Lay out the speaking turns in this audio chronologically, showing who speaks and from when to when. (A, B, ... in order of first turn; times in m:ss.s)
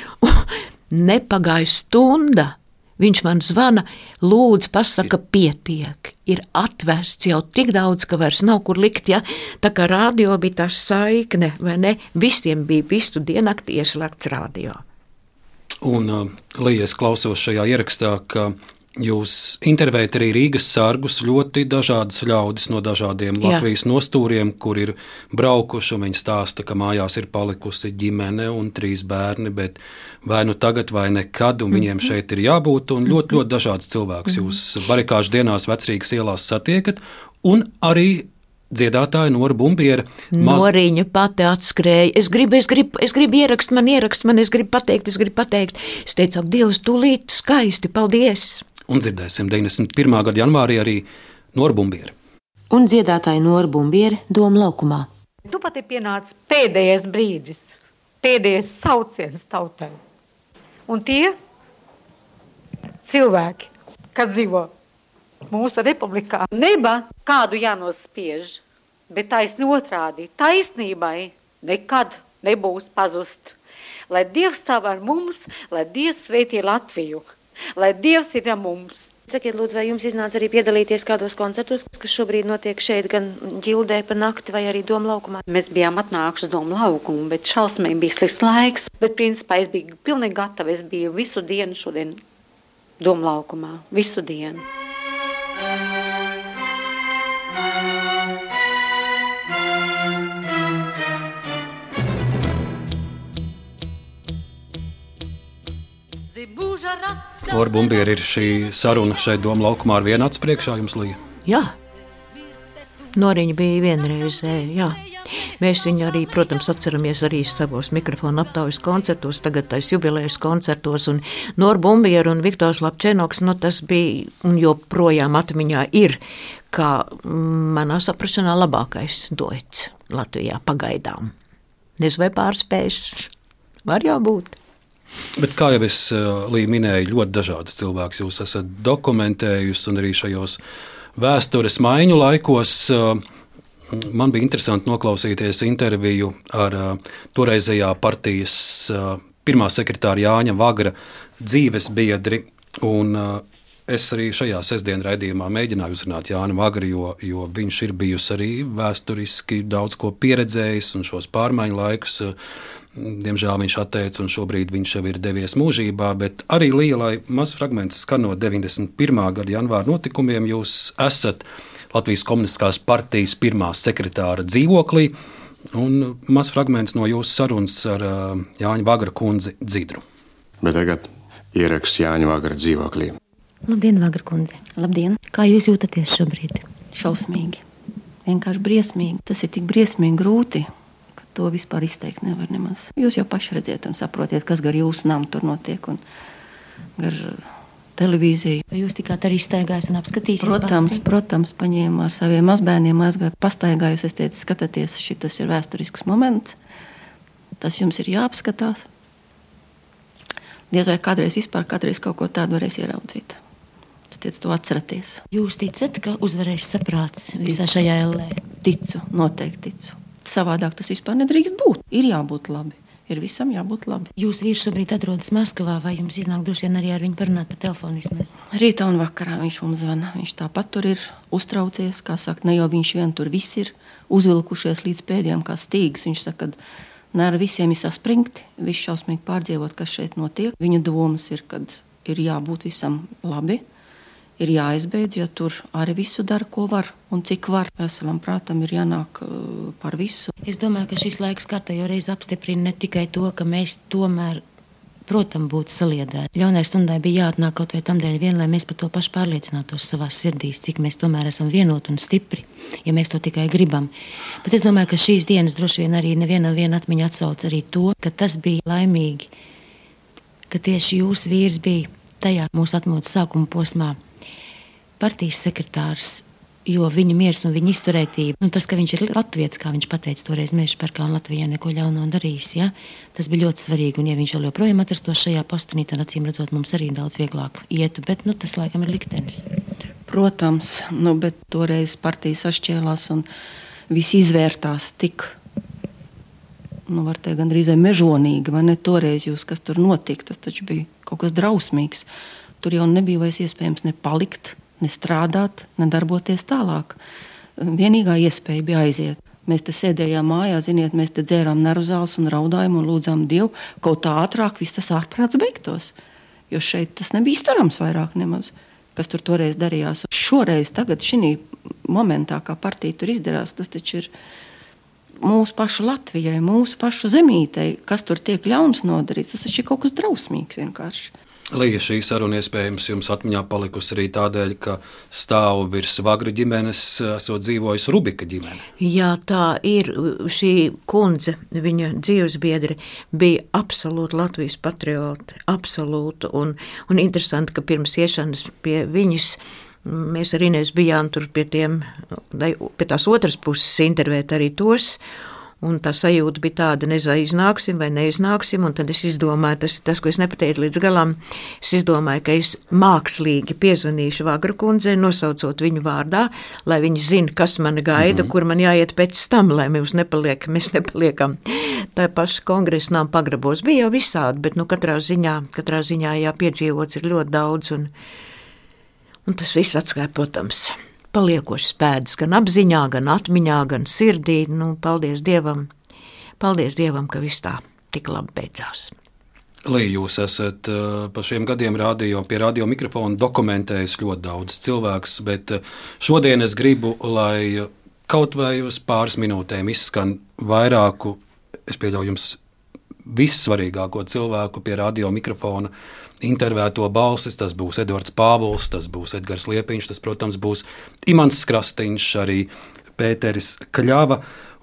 0:00.2-0:14.8 A
0:15.8-0:40.7 B
0:40.3-0:48.6 A
0:48.9-0:52.2 B
0:52.7-0:55.1 C
0:55.4-1:00.0 D
1:00.9-1:01.4 D
1:03.0-1:04.7 D
1:05.5-1:13.6 D
1:14.1-1:17.2 D
1:17.8-1:19.1 D
1:19.3-1:25.4 C
1:25.5-1:32.2 D
1:33.0-1:34.6 D
1:46.4-1:47.3 D
1:47.5-1:51.2 B
1:51.5-1:51.8 A
1:53.2-1:55.0 A
1:55.6-2:06.2 A
2:06.7-2:11.3 A
2:12.0-2:13.3 A
2:13.9-2:14.6 A
2:15.4-2:20.6 B
2:21.2-2:23.2 B
2:23.9-2:42.4 B
2:43.0-2:55.2 B
2:55.7-3:00.0 B
3:00.6-3:03.2 E
3:03.7-3:04.6 C
3:04.8-3:05.2 F
3:05.3-3:06.6 C
3:06.9-3:07.6 F
3:08.3-3:10.7 F
3:11.3-3:16.0 F
3:17.0-3:18.6 F
3:18.7-3:21.0 C
3:20.4-3:26.6 F
3:27.6-3:28.9 F
3:30.7-3:33.4 F
3:34.1-3:35.2 F
3:35.3-3:38.4 C
3:37.4-3:37.9 F
3:38.5-3:44.1 F
3:44.2-3:48.4 C
3:48.5-3:56.6 F
3:57.1-4:03.6 F
4:04.4-4:10.3 F
4:10.5-4:14.4 C
4:15.1-4:23.9 C
4:24.4-4:29.3 C
4:30.5-4:34.0 C
4:35.0-4:49.4 C
4:50.1-4:53.3 F
4:53.9-4:55.4 F
4:56.9-5:02.1 F
5:02.6-5:07.0 F
5:07.6-5:15.9 F
5:16.5-5:24.1 F
5:25.2-5:31.1 F
5:31.5-5:38.6 B
5:38.8-5:55.0 A
5:55.6-6:17.9 A
6:08.0-6:08.3 B
6:19.3-6:25.7 A
6:26.4-6:28.9 A
6:29.6-6:42.4 B
6:43.1-6:54.2 B